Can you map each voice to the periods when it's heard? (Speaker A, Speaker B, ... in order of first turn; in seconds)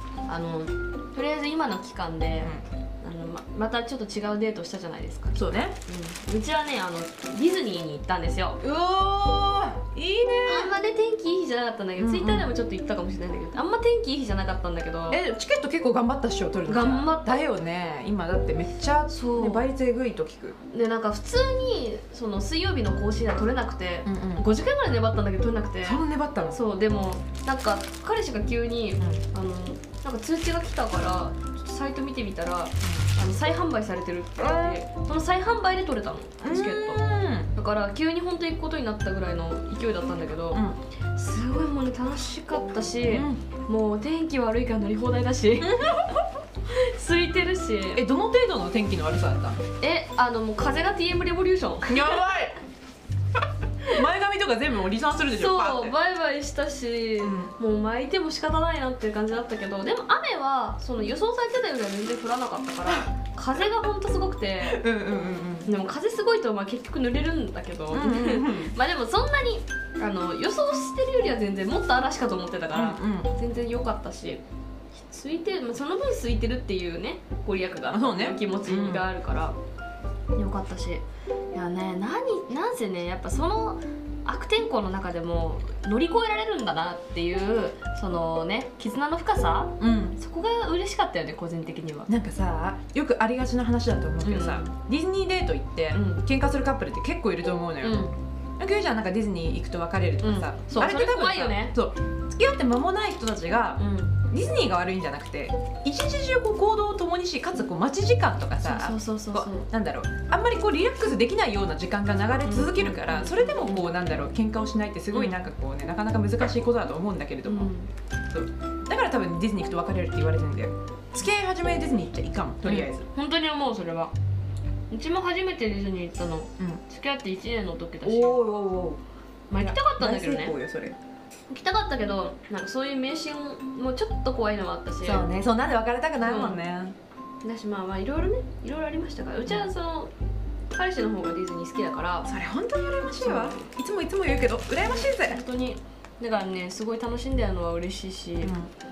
Speaker A: 0.2-8.6, 10.4-15.2, 16.6-17.4, 19.1-19.6, 20.7-48.0, 49.8-52.0, 55.3-64.8, 65.7-74.4, 75.0-79.5, 80.3-92.1, 94.2-94.7, 95.9-96.2, 97.8-98.2, 100.2-101.8, 103.8-104.2, 108.6-109.7, 112.4-113.9, 115.1-115.4, 117.5-117.9, 122.6-124.1, 124.9-128.4, 129.5-130.5, 131.5-135.2, 136.2-136.6, 137.4-140.1, 140.7-142.3, 143.2-143.6, 144.8-148.5
Speaker B: 5.3-5.8, 8.6-10.7, 12.0-12.5, 15.1-20.6, 24.0-24.5, 25.8-26.6, 34.4-34.8, 36.4-37.5, 40.5-40.8, 43.1-43.4, 45.6-46.0, 47.9-49.6, 51.9-52.6, 53.8-56.0, 57.2-57.5, 64.6-65.7, 67.9-68.7, 72.7-73.3, 77.9-79.1, 89.8-90.2, 92.1-117.7, 118.3-123.1, 128.0-129.0, 129.6-131.0, 135.0-136.9, 139.4-139.7, 142.2-145.4, 148.4-148.7